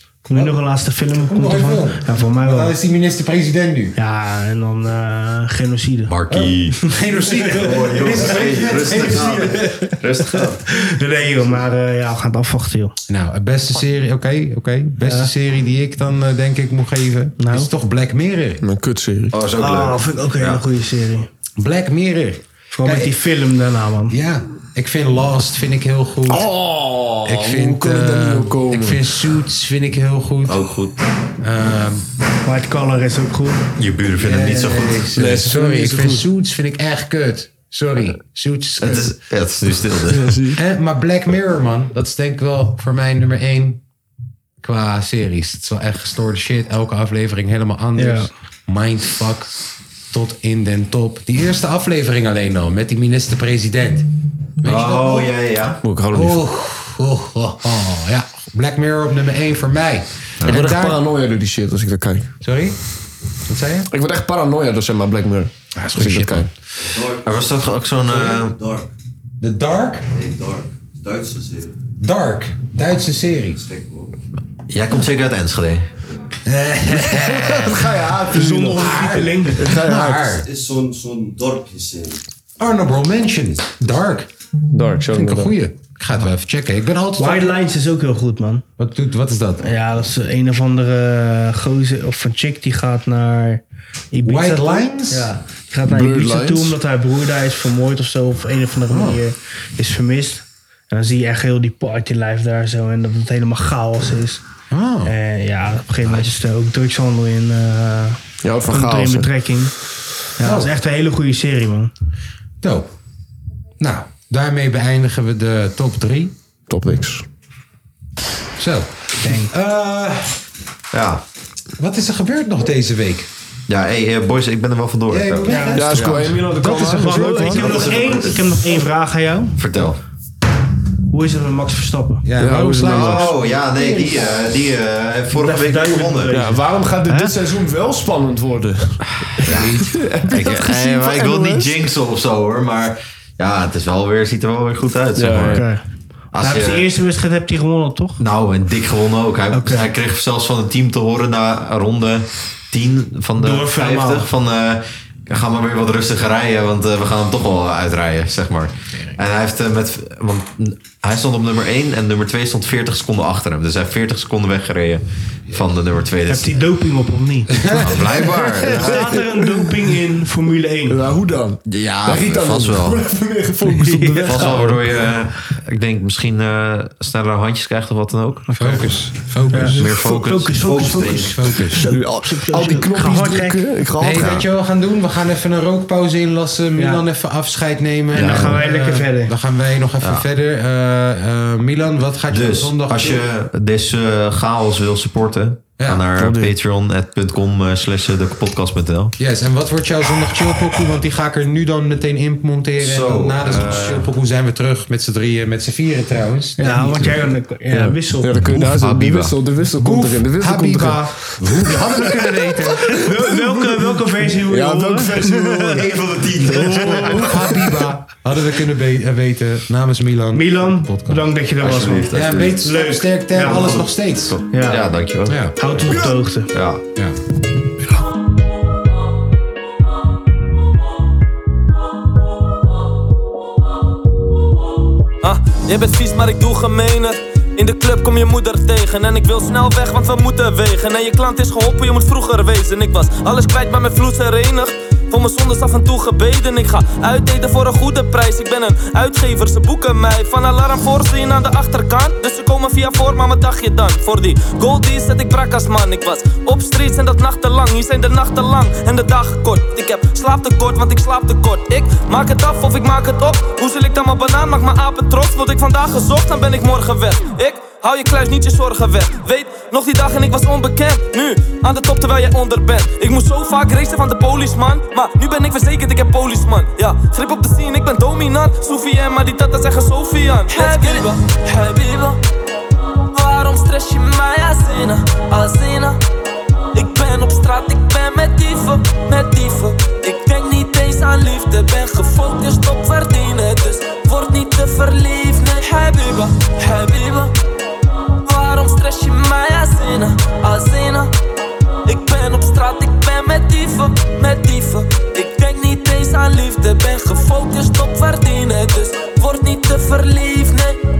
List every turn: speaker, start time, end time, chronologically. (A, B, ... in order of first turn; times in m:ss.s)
0:00.2-0:02.7 A
0:01.2-0:04.0 B
0:04.0-0:06.1 A
0:06.1-0:06.9 C
0:06.3-0:09.4 B
0:07.5-0:10.6 C
0:09.1-0:10.0 A
0:10.7-0:13.0 A
0:13.1-0:18.6 B
0:15.0-0:15.3 A
0:17.4-0:17.7 A
0:18.6-0:19.4 D
0:19.3-0:20.6 C
0:19.6-0:21.3 A
0:21.6-0:23.2 B
0:22.7-0:24.2 A
0:24.1-0:26.5 B
0:26.3-0:29.0 D
0:27.2-0:30.7 B
0:30.5-0:30.9 E
0:31.4-0:32.1 B
0:32.4-0:33.6 A
0:33.8-0:35.1 C
0:34.2-0:39.1 B
0:35.1-0:36.2 D
0:38.8-0:40.4 C
0:40.1-0:40.6 D
0:40.5-0:43.8 B
0:44.6-0:49.5 B
0:48.0-0:48.3 A
0:50.1-0:54.1 B
0:54.6-0:55.3 B
0:54.6-0:55.8 C
0:55.8-0:56.4 D
0:56.1-1:01.0 B
1:00.4-1:02.3 D
1:02.4-1:02.8 B
1:03.4-1:03.9 B
1:03.9-1:06.5 D
1:05.7-1:06.5 B
1:06.8-1:08.9 E
1:07.2-1:08.6 C
1:09.4-1:10.1 B
1:10.1-1:11.8 E
1:12.0-1:13.6 B
1:13.6-1:14.1 E
1:14.7-1:15.9 C
1:16.4-1:18.0 B
1:17.1-1:20.4 D
1:18.3-1:19.6 A
1:18.8-1:20.4 B
1:20.4-1:22.2 E
1:22.6-1:24.3 B
1:24.7-1:25.5 D
1:25.1-1:27.6 B
1:27.2-1:28.6 A
1:28.8-1:29.6 B
1:29.6-1:44.4 A
1:34.2-1:35.3 B
1:35.8-1:36.8 D
1:38.9-1:39.2 B
1:44.7-1:45.1 B
1:45.0-1:49.8 A
1:48.4-1:49.3 D
1:50.3-1:51.9 A
1:50.4-1:50.7 B
1:52.6-1:52.9 B
1:53.8-1:56.3 B
1:56.7-1:57.2 D
1:58.6-2:00.4 B
1:59.2-1:59.5 A
2:00.9-2:01.2 C
2:01.8-2:03.3 B
2:03.7-2:06.3 C
2:05.1-2:08.1 B
2:05.4-2:05.9 A
2:05.7-2:08.0 D
2:06.6-2:09.6 A
2:07.6-2:08.4 C
2:09.6-2:10.0 C
2:11.1-2:12.2 A
2:12.2-2:13.6 B
2:12.4-2:13.3 D
2:12.9-2:16.4 C
2:13.8-2:14.0 A
2:15.3-2:17.3 A
2:16.3-2:21.7 D
2:19.4-2:19.8 C
2:19.5-2:20.4 B
2:20.3-2:25.6 C
2:25.2-2:25.7 D
2:25.5-2:25.8 A
2:26.3-2:26.9 C
2:26.4-2:28.2 A
2:28.2-2:46.6 C
2:29.5-2:29.9 A
2:33.4-2:34.3 A
2:38.9-2:39.2 B
2:46.3-2:47.6 A
2:47.5-2:48.4 B
2:47.7-2:49.1 C
2:48.6-2:49.6 D
2:48.7-2:51.0 A
2:50.9-2:54.8 D
2:51.7-2:53.0 C
2:53.8-2:54.4 A
2:54.2-2:58.6 C
2:58.5-3:03.6 A
2:58.6-2:59.9 B
2:59.8-3:01.4 C
3:01.1-3:01.8 B
3:01.8-3:04.4 D
3:04.0-3:13.2 B
3:06.8-3:07.0 A
3:08.1-3:09.3 A
3:08.1-3:08.6 D
3:12.3-3:19.1 C
3:15.8-3:16.0 B
3:16.2-3:16.5 D
3:19.2-3:27.2 B
3:22.8-3:24.1 C
3:26.6-3:28.4 A
3:27.7-3:32.3 D
3:28.5-3:29.4 C
3:29.8-3:33.1 B
3:33.0-3:35.9 A
3:34.4-3:37.7 D
3:35.8-3:37.1 C
3:36.6-3:41.3 B
3:36.8-3:37.2 A
3:40.3-3:43.8 A
3:41.6-3:42.6 C
3:42.1-3:44.4 B
3:43.4-3:46.0 C
3:44.5-3:44.9 A
3:45.2-3:45.6 B
3:45.6-3:46.5 A
3:46.5-3:46.8 C
3:55.2-4:42.2 F
4:43.1-4:46.0 F
4:46.7-4:57.3 F
4:58.2-5:01.1 F
5:01.9-5:10.8 F